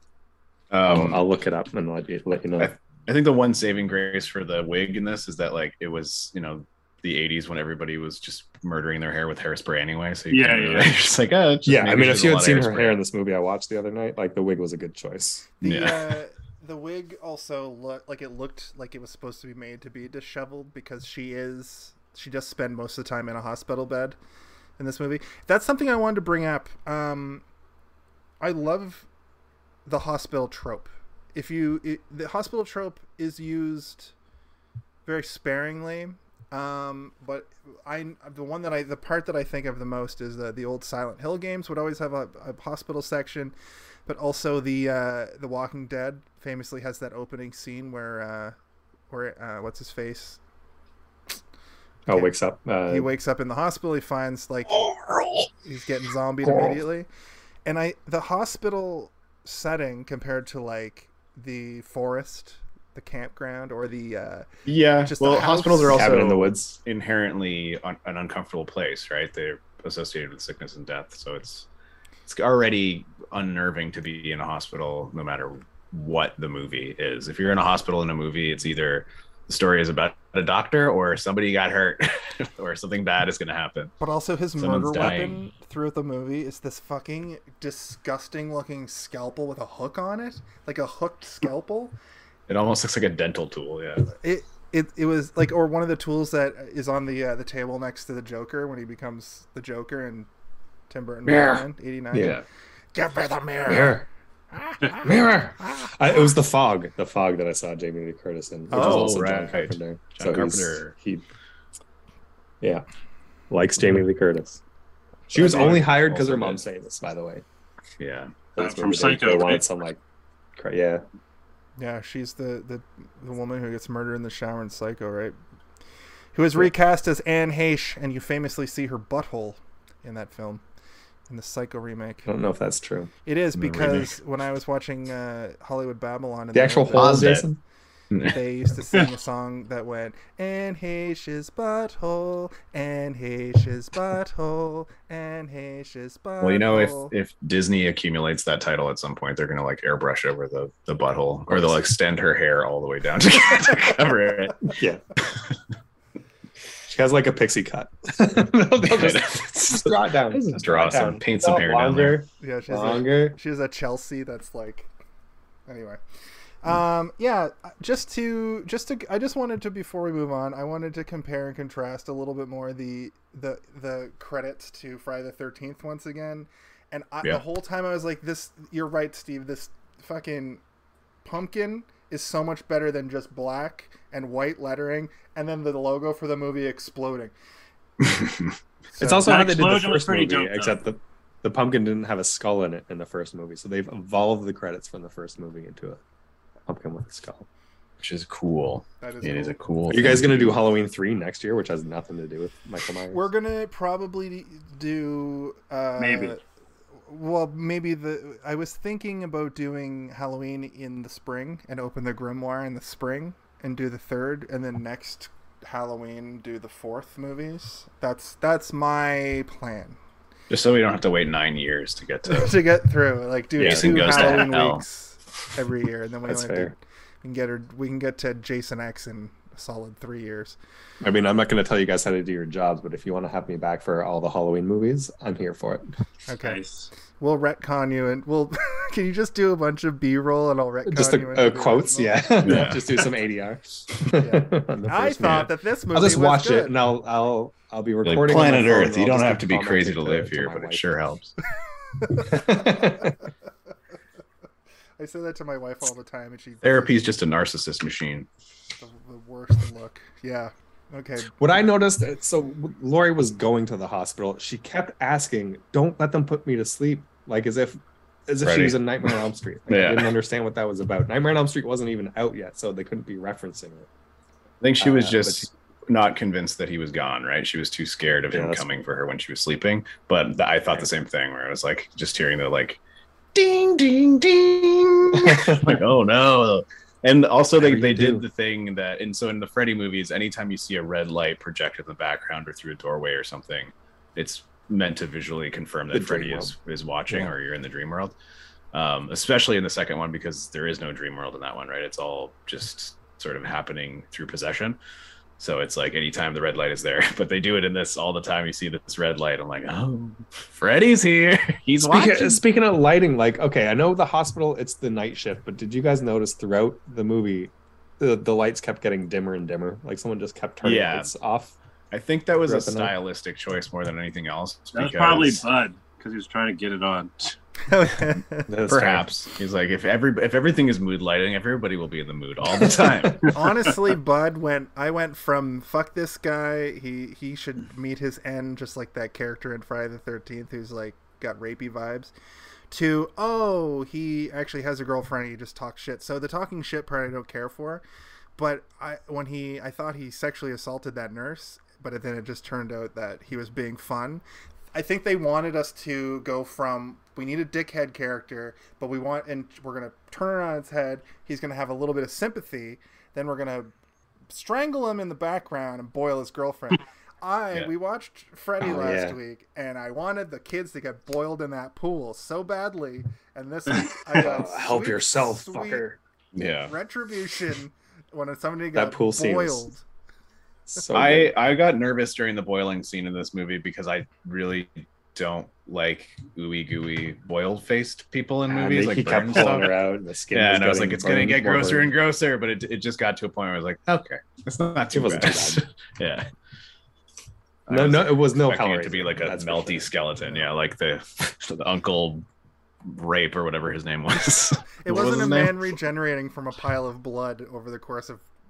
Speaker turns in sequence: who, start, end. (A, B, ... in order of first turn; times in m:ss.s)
0:00.7-0:01.2 A
0:00.8-0:02.7 B
0:02.6-0:13.0 A
0:10.3-0:11.0 C
0:11.7-0:15.5 B
0:15.6-0:24.2 D
0:15.6-0:16.2 A
0:24.8-0:27.4 D
0:28.4-0:29.1 D
0:29.9-0:34.1 D
0:35.1-0:43.6 D
0:44.1-0:48.6 D
0:49.1-0:50.4 D
0:52.1-0:53.1 B
0:52.1-0:52.4 D
0:52.9-0:54.8 D
0:54.7-0:55.5 A
0:55.6-0:57.1 D
0:56.4-0:56.8 B
0:57.7-1:04.5 D
1:04.7-1:11.7 A
1:05.0-1:06.2 D
1:05.9-1:06.8 B
1:12.3-1:24.0 A
1:24.0-1:32.0 D
1:24.6-1:25.4 A
1:32.5-1:34.1 A
1:34.1-1:40.3 D
1:40.9-1:42.4 D
1:41.3-1:41.6 A
1:42.1-1:42.4 B
1:42.2-1:42.4 A
1:42.9-1:46.3 D
1:43.7-1:44.1 B
1:45.0-1:51.2 B
1:48.7-1:49.5 D
1:48.7-1:50.9 A
1:53.5-1:54.6 B
1:55.3-1:57.4 B
1:55.4-1:55.8 D
1:55.4-1:56.6 A
1:58.0-1:58.4 A
1:58.6-2:00.0 B
1:58.6-1:59.6 C
2:00.6-2:01.0 B
2:01.8-2:05.4 D
2:06.3-2:10.6 D
2:11.3-2:12.3 D
2:12.3-2:13.1 B
2:13.3-2:17.4 D
2:13.6-2:14.1 A
2:16.5-2:17.6 B
2:16.9-2:17.5 A
2:18.2-2:27.1 D
2:26.4-2:34.8 A
2:34.8-2:35.0 B
2:36.9-2:43.4 B
2:38.8-2:42.2 A
2:42.4-2:44.9 D
2:45.7-2:46.0 D
2:46.6-3:00.6 D
3:01.2-3:07.3 D
3:08.1-3:08.5 A
3:08.9-3:09.4 D
3:09.0-3:16.0 B
3:09.2-3:10.8 C
3:16.7-3:17.5 B
3:18.0-3:20.6 A
3:19.0-3:19.6 D
3:19.9-3:23.2 B
3:23.1-3:26.4 D
3:26.0-3:26.4 C
3:27.1-3:40.0 D
3:40.5-3:42.6 A
3:42.3-3:50.6 D
3:43.6-3:44.8 A
3:43.6-3:44.5 C
3:46.2-3:46.7 B
3:51.0-3:55.9 B
3:56.3-3:56.6 D
3:56.4-3:56.9 C
3:57.2-4:02.7 D
4:00.9-4:11.0 B
4:02.4-4:03.0 A
4:04.2-4:06.8 D
4:08.0-4:11.4 A
4:12.0-4:13.1 D
4:12.2-4:13.2 B
4:15.0-4:17.1 D
4:16.6-4:18.3 A
4:18.8-4:21.4 D
4:21.4-4:33.9 B
4:28.4-4:30.1 A
4:34.6-4:42.8 A
4:34.8-4:35.5 B
4:38.3-4:38.7 B
4:43.4-4:58.2 A
4:45.2-4:45.8 B
4:47.6-4:48.2 B
4:55.9-4:56.6 B
4:57.1-4:57.3 B
4:58.7-5:04.8 A
5:05.4-5:12.4 A
5:11.8-5:21.6 B
5:20.6-5:21.1 A
5:21.9-5:25.4 A
5:22.4-5:23.0 B
5:24.7-5:27.4 C
5:27.6-5:28.5 D
5:28.5-5:29.1 B
5:28.7-5:33.3 A
5:32.5-5:33.3 B
5:33.2-5:42.1 D
5:42.7-5:47.8 D
5:48.4-5:54.2 D
5:54.7-6:03.7 D
6:04.3-6:15.9 D
6:08.6-6:09.2 B
6:13.7-6:14.2 C
6:14.1-6:16.0 B
6:16.4-6:16.7 A
6:16.7-6:19.8 D
6:18.7-6:19.7 B
6:20.7-6:21.3 B
6:20.9-6:29.7 A
6:28.5-6:31.9 B
6:30.3-6:36.3 A
6:34.9-6:35.6 B
6:37.7-6:42.3 A
6:37.7-6:39.9 B
6:42.9-6:45.6 A
6:44.8-6:48.3 D